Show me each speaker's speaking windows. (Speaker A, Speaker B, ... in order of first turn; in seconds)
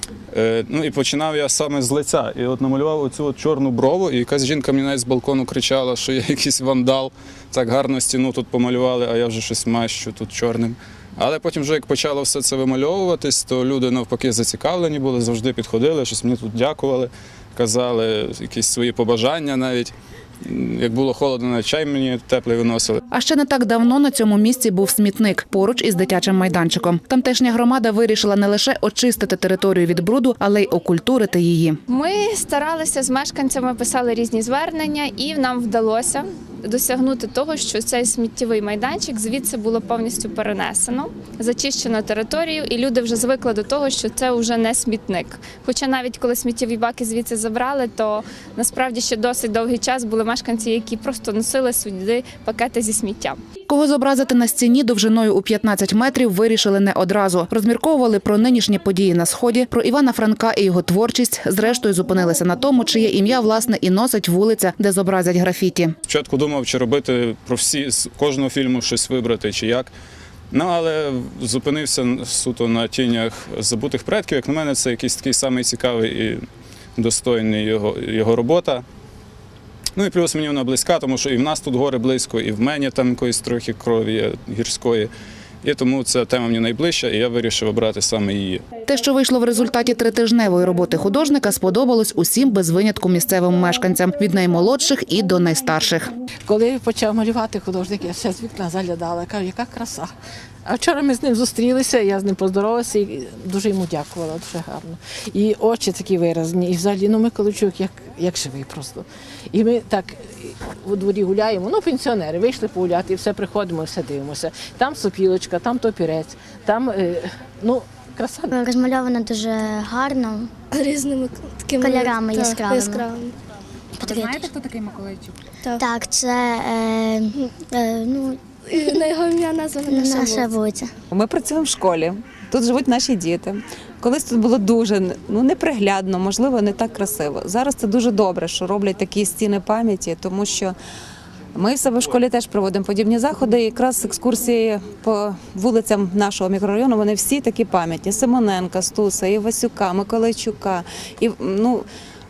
Speaker A: 0.3-19.9, 20.4-23.0, 66.1-69.9, 70.5-76.4, 77.0-78.8, 80.0-85.1, 85.6-88.6
Speaker B: 23.1-31.8, 53.7-66.0, 88.8-96.1
Speaker C: 31.9-53.4
Speaker D: 96.4-100.1, 100.7-118.6
Speaker E: 118.5-120.5, 121.8-123.1, 124.0-124.5, 125.8-129.1, 129.8-130.9
Speaker F: 120.7-123.3, 128.6-130.6
Speaker G: 124.0-125.3, 131.1-140.8, 141.5-151.8